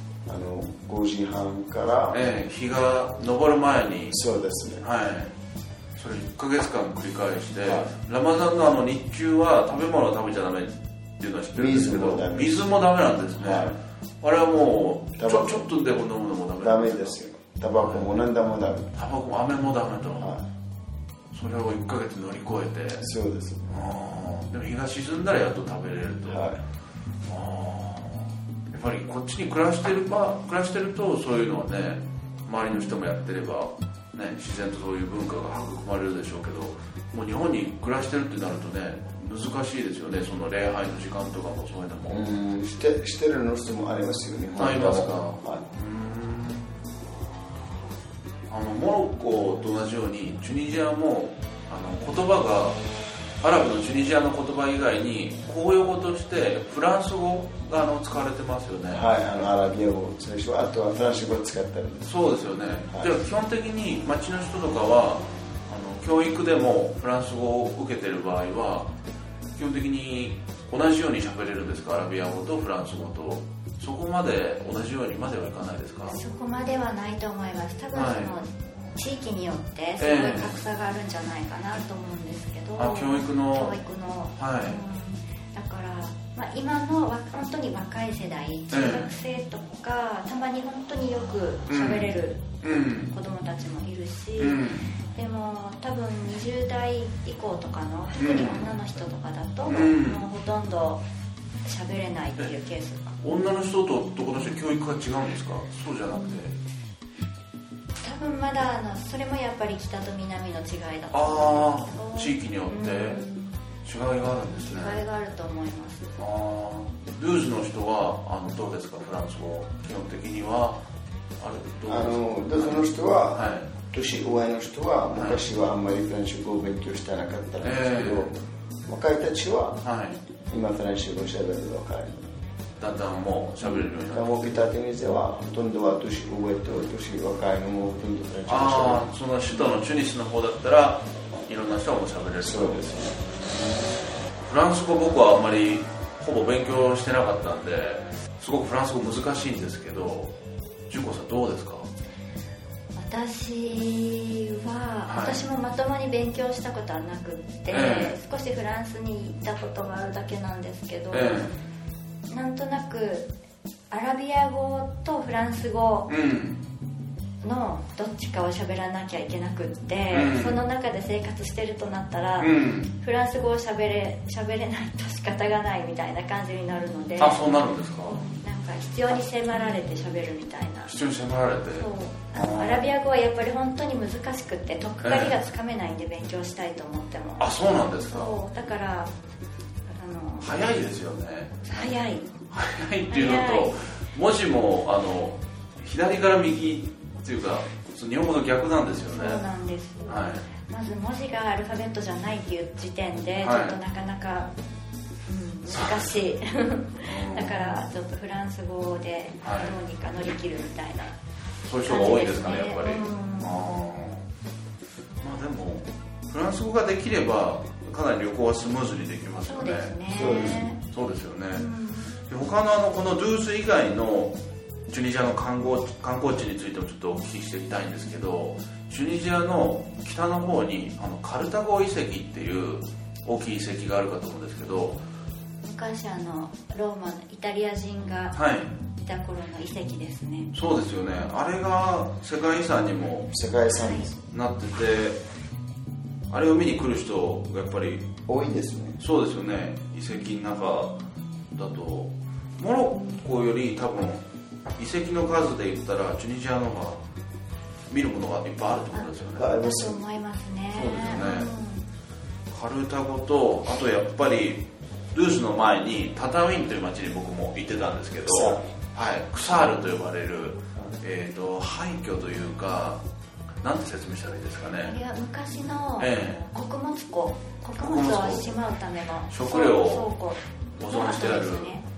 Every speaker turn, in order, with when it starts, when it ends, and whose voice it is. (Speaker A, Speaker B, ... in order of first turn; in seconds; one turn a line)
Speaker A: 0.2-2.2
Speaker B: 2.1-4.2
Speaker A: 4.1-4.8
Speaker B: 4.8-5.3
Speaker B: 6.0-17.1
Speaker A: 11.5-12.7
Speaker A: 13.3-13.8
Speaker A: 15.2-15.7
Speaker A: 16.6-18.9
Speaker B: 17.8-18.1
Speaker B: 18.9-20.4
Speaker A: 20.2-20.4
Speaker B: 21.3-23.0
Speaker A: 23.0-23.8
Speaker B: 23.7-26.5
Speaker A: 26.3-26.6
Speaker B: 27.3-42.2
Speaker A: 42.1-45.6
Speaker B: 44.6-46.7
Speaker B: 48.5-52.8
Speaker B: 53.4-59.0
Speaker A: 58.9-62.1
Speaker B: 62.0-68.9
Speaker B: 69.5-76.2
Speaker C: 76.1-101.0
Speaker B: 77.9-78.3
Speaker B: 80.0-80.5
Speaker B: 82.8-83.8
Speaker B: 84.3-84.8
Speaker B: 88.7-89.1
Speaker B: 91.7-92.1
Speaker B: 92.6-93.1
Speaker B: 94.4-94.9
Speaker B: 98.2-98.7
Speaker B: 99.7-100.2
Speaker C: 101.6-103.2
Speaker B: 103.2-106.5
Speaker C: 108.0-113.5
Speaker B: 111.1-113.2
Speaker B: 113.8-115.0
Speaker C: 114.7-116.1
Speaker B: 116.2-120.8
Speaker B: 121.4-123.7
Speaker A: 121.9-128.3
Speaker B: 125.1-125.4
Speaker B: 127.6-128.3
Speaker A: 128.9-129.8
Speaker B: 129.8-130.2
Speaker A: 130.5-132.3
Speaker B: 132.8-134.5
Speaker A: 133.6-139.1
Speaker B: 138.5-143.9
Speaker A: 142.4-143.2
Speaker B: 144.4-150.3
Speaker B: 150.9-151.9
Speaker C: 152.9-161.5
Speaker B: 155.1-155.4
Speaker B: 157.7-158.1
Speaker B: 161.1-161.5
Speaker C: 162.3-163.3
Speaker C: 163.9-166.1
Speaker B: 166.1-166.6
Speaker C: 167.4-180.9
Speaker B: 170.1-170.6
Speaker B: 172.4-172.9
Speaker B: 177.2-178.2
Speaker B: 180.9-182.8
Speaker C: 181.7-187.5
Speaker B: 185.0-185.3
Speaker B: 187.4-188.3
Speaker C: 188.1-189.1
Speaker C: 189.9-190.5
Speaker B: 190.4-191.9
Speaker C: 191.6-192.3
Speaker B: 192.5-199.4
Speaker C: 193.1-193.8
Speaker C: 199.1-204.5
Speaker B: 200.1-200.4
Speaker B: 203.4-203.8
Speaker C: 205.3-211.2
Speaker B: 205.7-206.1
Speaker B: 207.0-207.8
Speaker B: 209.4-209.7
Speaker B: 211.6-214.2
Speaker C: 211.8-213.8
Speaker B: 215.2-221.7
Speaker C: 219.4-220.8
Speaker A: 220.1-220.6
Speaker C: 221.5-222.1
Speaker B: 222.2-224.3
Speaker B: 224.9-235.0
Speaker C: 235.6-238.4
Speaker B: 238.3-238.7
Speaker C: 239.0-240.5
Speaker B: 240.5-243.3
Speaker A: 243.3-244.2
Speaker C: 243.8-244.1
Speaker B: 244.3-245.2
Speaker B: 246.3-248.1
Speaker A: 248.3-249.0
Speaker B: 249.0-250.9
Speaker B: 251.5-254.2
Speaker B: 254.8-257.0
Speaker B: 257.9-259.5
Speaker C: 258.9-261.8
Speaker A: 259.4-260.0
Speaker B: 260.7-261.5
Speaker B: 262.5-273.0
Speaker A: 268.3-268.6
Speaker B: 273.6-274.9
Speaker C: 274.8-281.8
Speaker B: 276.0-276.4
Speaker B: 277.8-278.6
Speaker B: 279.3-280.1
Speaker B: 280.8-281.7